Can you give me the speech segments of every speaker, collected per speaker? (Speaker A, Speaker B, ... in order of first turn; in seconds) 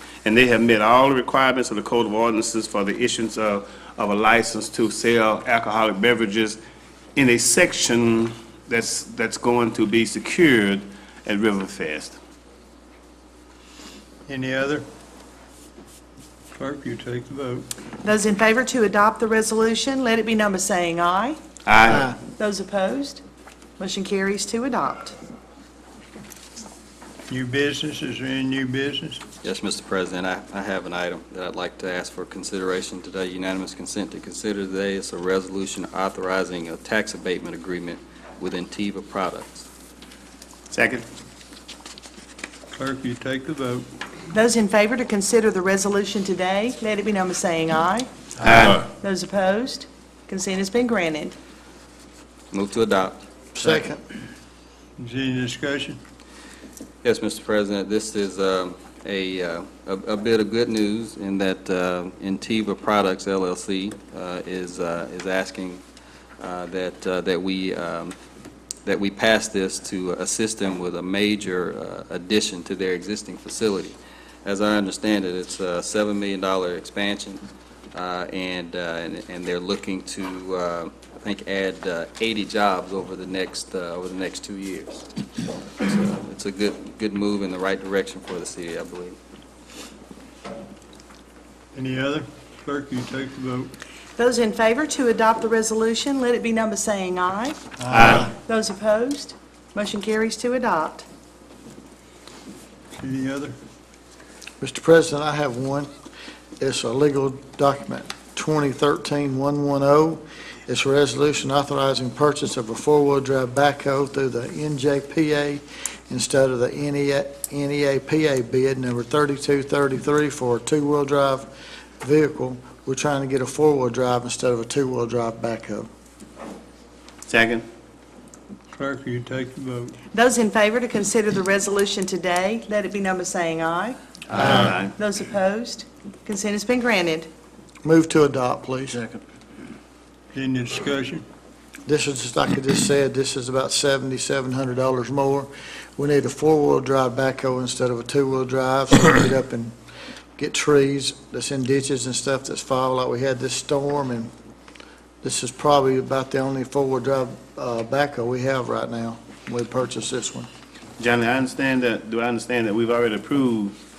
Speaker A: 0.2-6.6, 7.2-12.2, 21.6-22.1, 40.7-41.0, 48.4-48.8, 97.9-98.3, 127.3-127.6, 134.3-134.9, 161.0-163.7
Speaker B: 14.3-14.8, 16.5-17.7, 27.3-29.2, 42.7-43.9, 55.0-56.0, 91.7-93.7, 102.9-103.5, 128.7-129.9, 140.3-141.2
Speaker C: 18.0-21.4, 22.2-23.2, 23.8-25.1, 44.3-48.1, 48.8-51.3, 94.2-101.0, 130.1-137.3
Speaker D: 29.4-39.6, 52.5-53.2, 57.0-65.8, 66.4-68.1, 68.8-77.4, 77.9-85.1, 85.8-89.2
Speaker E: 53.5-54.0, 104.6-105.9, 106.6-121.5, 122.0-125.9, 137.8-139.1, 141.8-149.7, 150.4-154.3, 155.2-160.5